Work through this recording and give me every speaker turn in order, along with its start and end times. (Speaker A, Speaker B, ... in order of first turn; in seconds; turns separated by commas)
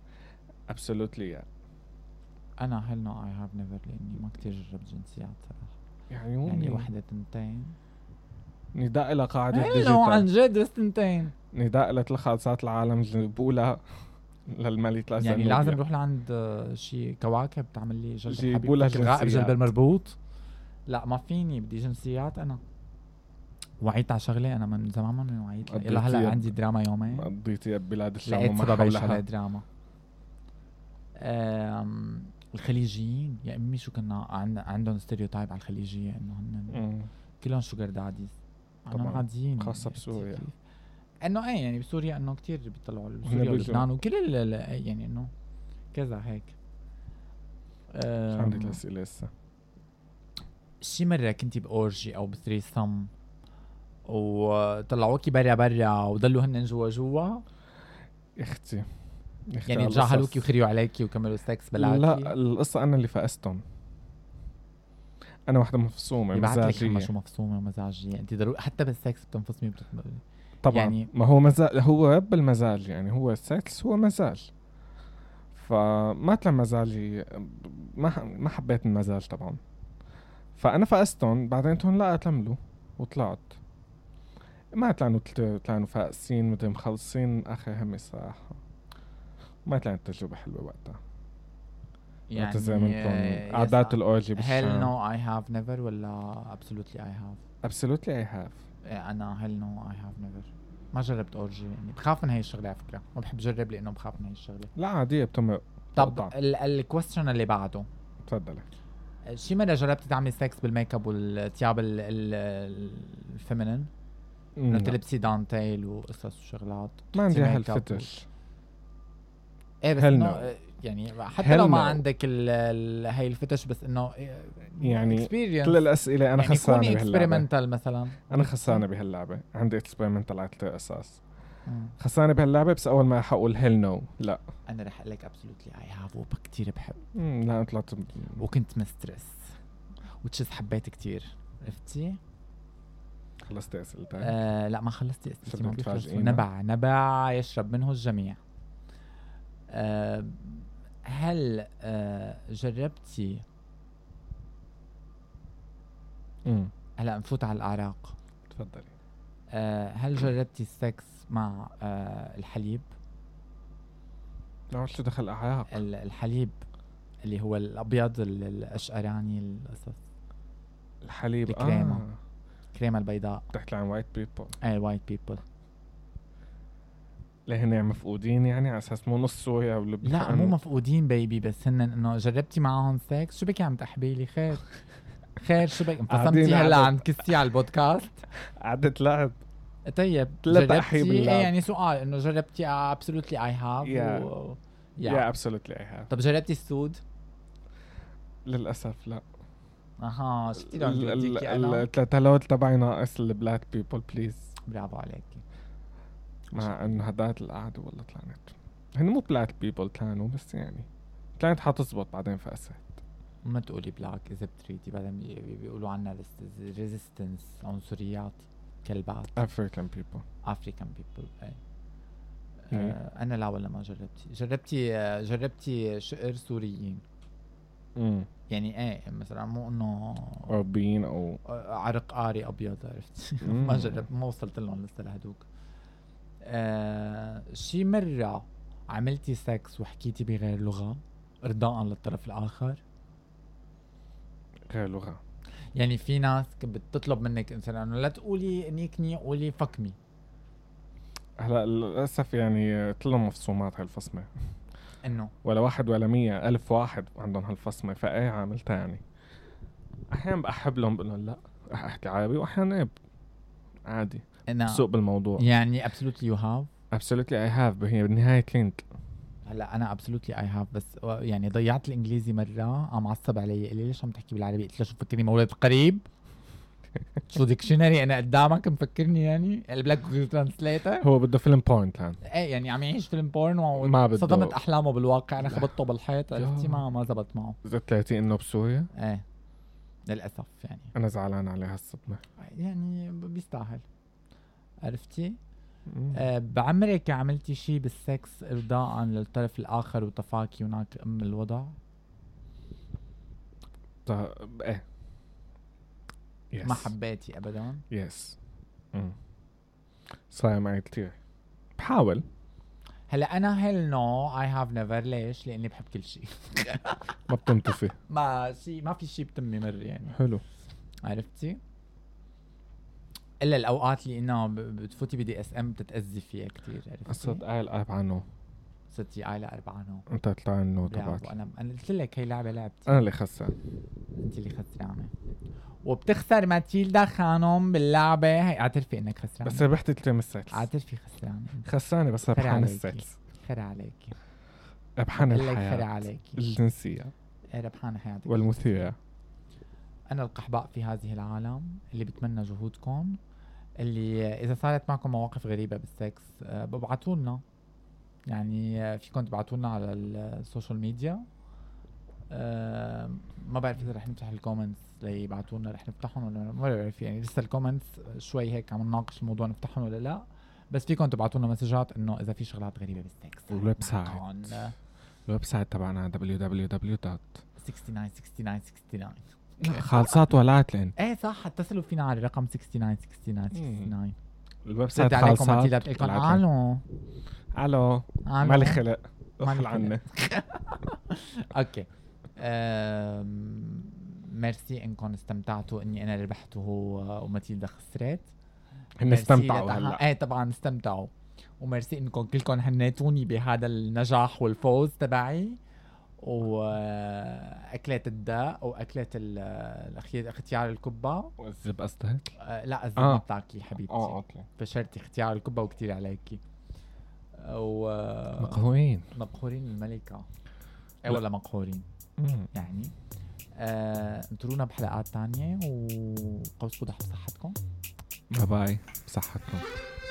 Speaker A: 0.7-1.5, Speaker B: 2.6-5.7, Speaker A: 6.1-6.9, Speaker B: 6.4-7.7, Speaker A: 8.7-10.3, Speaker B: 9.5-11.3, Speaker A: 11.5-13.8, Speaker A: 14.5-15.8, Speaker B: 15.2-20.1, Speaker A: 18.3-19.7, Speaker B: 20.9-22.6, Speaker B: 23.8-27.3, Speaker A: 25.6-26.5, Speaker A: 27.0-29.2, Speaker B: 28.2-29.6, Speaker B: 31.2-36.8, Speaker A: 36.7-37.1, Speaker B: 37.4-38.4, Speaker B: 38.9-40.5, Speaker A: 38.9-40.5, Speaker B: 41.2-45.3, Speaker A: 43.2-43.9, Speaker B: 45.9-46.5, Speaker B: 47.9-48.8, Speaker A: 48.3-49.3, Speaker B: 50.8-53.1, Speaker B: 54.1-57.4, Speaker A: 58.4-58.9, Speaker A: 59.5-60.5, Speaker B: 59.7-62.3, Speaker A: 61.8-63.6, Speaker A: 65.5-67.1, Speaker B: 66.3-71.1, Speaker A: 70.6-74.5, Speaker A: 75.5-79.6, Speaker A: 80.6-83.6, Speaker A: 84.8-88.6, Speaker A: 89.7-91.0, Speaker B: 92.3-97.4, Speaker A: 92.3-94.9, Speaker A: 97.6-98.6, Speaker B: 98.8-104.7, Speaker A: 104.8-106.3, Speaker B: 106.0-107.9, Speaker A: 108.2-108.6, Speaker B: 109.3-113.9, Speaker A: 114.6-115.0, Speaker B: 114.7-118.0, Speaker A: 117.1-118.2, Speaker B: 119.8-128.8, Speaker A: 120.0-120.5, Speaker A: 121.4-122.0, Speaker A: 124.8-127.5, Speaker A: 128.3-131.2, Speaker B: 131.7-131.9, Speaker A: 132.0-134.4, Speaker B: 134.7-137.0, Speaker A: 137.1-138.4, Speaker B: 138.4-139.5, Speaker B: 140.2-142.2, Speaker A: 143.4-144.4, Speaker B: 144.2-148.4, Speaker A: 145.4-146.5, Speaker B: 149.7-153.4, Speaker A: 156.4-156.7, Speaker B: 157.0-158.1, Speaker A: 158.5-158.9, Speaker B: 159.5-162.8, Speaker A: 164.7-165.7, Speaker B: 165.7-166.6, Speaker B: 167.2-170.0, Speaker A: 171.0-172.2, Speaker B: 171.4-172.0, Speaker B: 172.7-173.4, Speaker A: 173.5-174.6, Speaker B: 174.6-175.4, Speaker A: 177.5-180.6, Speaker B: 180.0-184.7, Speaker B: 185.4-188.2, Speaker A: 186.1-187.3, Speaker A: 188.6-189.4, Speaker B: 189.8-195.3, Speaker A: 190.4-191.6, Speaker A: 193.8-194.3, Speaker A: 195.0-196.1, Speaker B: 196.1-197.0, Speaker A: 198.4-199.2, Speaker B: 200.0-201.9, Speaker A: 200.6-204.5, Speaker B: 204.7-205.4, Speaker A: 206.5-210.9, Speaker B: 206.5-207.0, Speaker A: 211.4-213.0, Speaker B: 213.4-219.4, Speaker A: 219.3-220.2, Speaker B: 220.4-221.6, Speaker B: 222.7-227.0, Speaker A: 222.7-223.0, Speaker A: 227.9-228.3, Speaker B: 228.5-230.5, Speaker A: 230.5-231.4, Speaker B: 231.4-235.5, Speaker A: 233.4-234.1, Speaker B: 236.4-242.8, Speaker A: 244.7-245.2, Speaker B: 245.8-249.9, Speaker A: 251.4-254.3, Speaker B: 255.0-255.3, Speaker A: 255.4-259.0, Speaker A: 260.1-262.9, Speaker A: 263.9-265.4, Speaker B: 264.5-264.9, Speaker B: 265.4-266.7, Speaker A: 266.9-268.8, Speaker B: 269.4-276.0, Speaker B: 277.3-281.1, Speaker A: 281.0-282.2, Speaker B: 282.2-287.6, Speaker A: 283.8-284.6, Speaker A: 285.4-285.7, Speaker A: 286.3-286.9, Speaker A: 287.6-288.9, Speaker B: 288.9-289.2, Speaker B: 290.1-290.9, Speaker A: 290.9-292.2, Speaker B: 292.4-293.8, Speaker B: 294.8-295.4, Speaker A: 295.9-296.2, Speaker B: 296.1-301.8, Speaker A: 304.1-304.8, Speaker A: 306.5-306.9, Speaker B: 306.6-307.8, Speaker A: 307.9-308.4, Speaker A: 310.3-311.1, Speaker A: 311.8-312.2, Speaker B: 313.1-317.2, Speaker A: 317.3-317.9, Speaker B: 318.1-320.2, Speaker A: 320.1-320.4, Speaker B: 321.0-321.6, Speaker B: 323.4-327.4, Speaker A: 327.1-328.2, Speaker B: 328.9-330.1, Speaker A: 330.1-331.3, Speaker B: 330.9-333.0, Speaker A: 332.9-333.6, Speaker B: 334.1-335.1, Speaker B: 335.8-339.7, Speaker A: 339.4-340.7, Speaker B: 340.5-341.6, Speaker A: 341.6-343.1, Speaker B: 342.3-344.1, Speaker A: 345.0-347.1, Speaker B: 345.1-346.4, Speaker B: 347.5-348.9, Speaker A: 348.2-348.9, Speaker B: 350.1-353.2, Speaker B: 353.8-357.4, Speaker B: 358.3-361.2, Speaker B: 362.3-374.7, Speaker A: 373.5-374.2, Speaker A: 375.2-377.4, Speaker B: 377.6-380.1, Speaker A: 379.6-380.9, Speaker B: 381.0-384.1, Speaker A: 383.5-383.9, Speaker A: 384.6-386.4, Speaker B: 384.9-386.8, Speaker A: 387.5-390.0, Speaker B: 388.2-388.8, Speaker B: 389.4-398.3, Speaker A: 399.0-400.0, Speaker B: 399.0-405.6, Speaker B: 406.2-411.3, Speaker A: 411.4-412.4, Speaker B: 412.4-416.4, Speaker A: 413.0-413.2, Speaker A: 413.9-414.5, Speaker B: 417.4-418.6, Speaker A: 418.4-419.1, Speaker B: 419.1-420.2, Speaker B: 421.0-421.8, Speaker A: 422.2-422.5, Speaker B: 422.5-422.9, Speaker B: 423.6-427.6, Speaker A: 428.3-429.7